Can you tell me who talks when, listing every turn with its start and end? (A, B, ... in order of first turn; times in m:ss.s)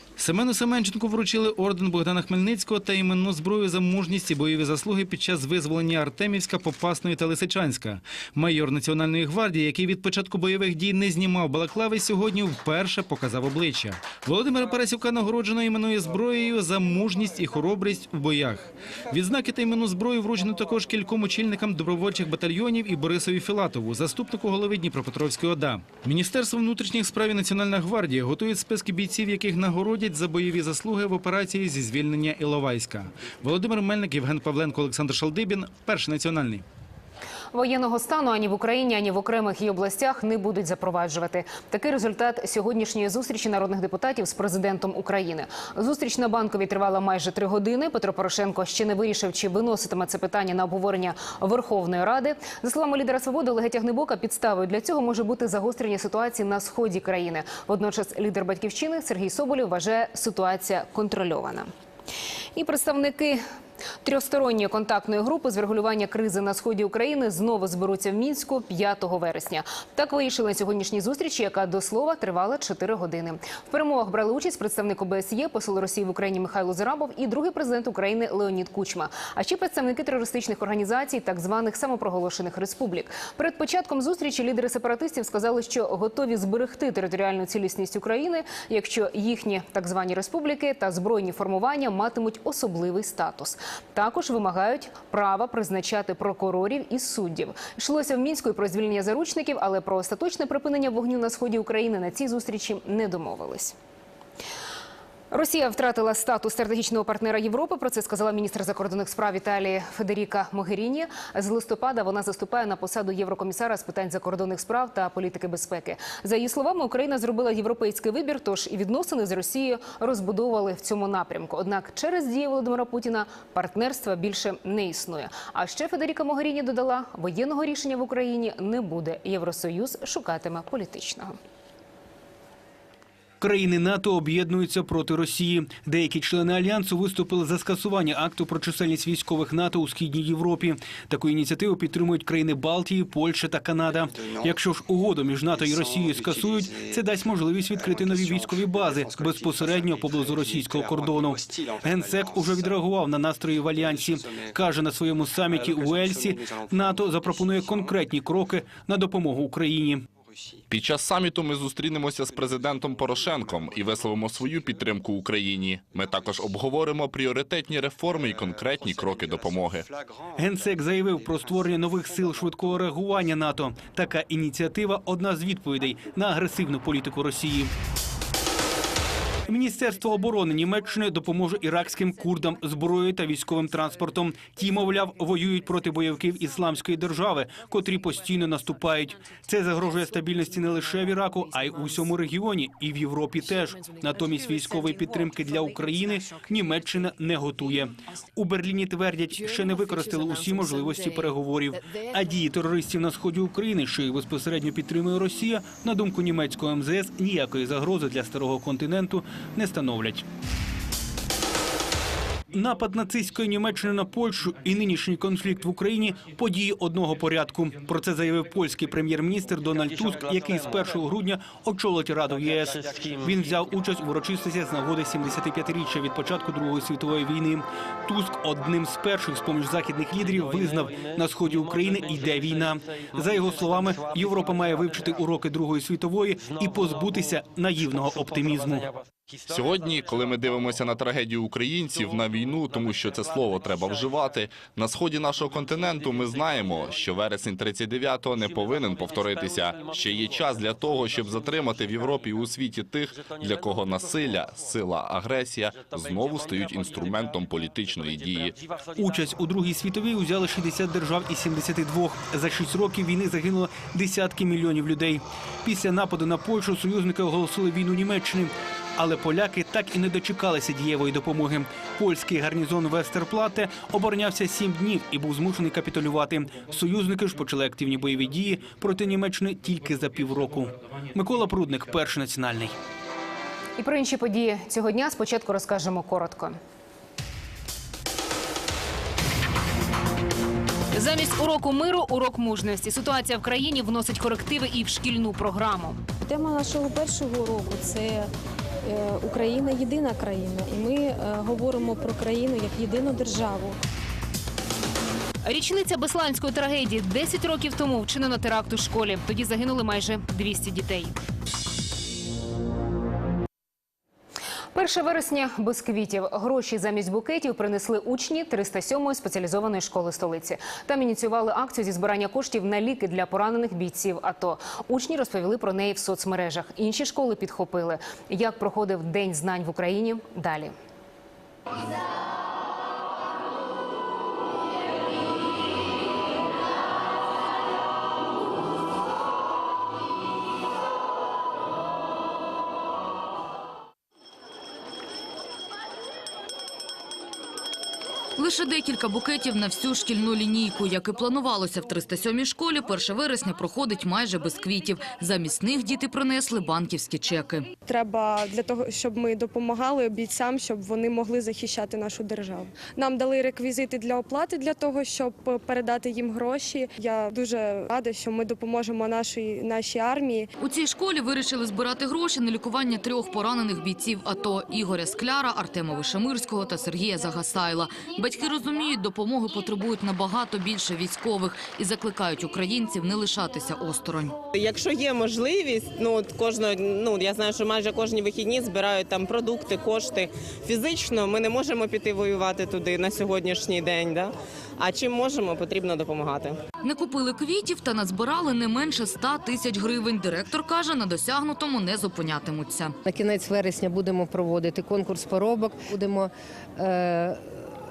0:00.2-0:36.6 A
0:37.5-1:01.7 B
1:02.6-1:03.4 B
1:04.0-1:43.7 B
1:45.3-2:11.4 B
2:13.4-2:40.0 C
2:40.7-2:49.8 D
2:50.4-2:57.7 C
2:59.5-3:30.2 C
3:32.5-3:58.9 C
3:59.5-4:18.6 D
4:18.9-4:42.7 C
4:43.8-4:46.6 B
4:50.9-4:56.0 B
4:56.2-4:58.3 E
4:58.8-5:03.8 E
5:05.4-5:11.1 B
5:14.7-5:30.7 B
5:48.4-5:57.7 F
5:57.8-6:10.4 G
6:10.6-6:24.4 F
6:24.5-6:36.6 H
6:36.8-6:42.9 F
6:43.0-6:47.6 I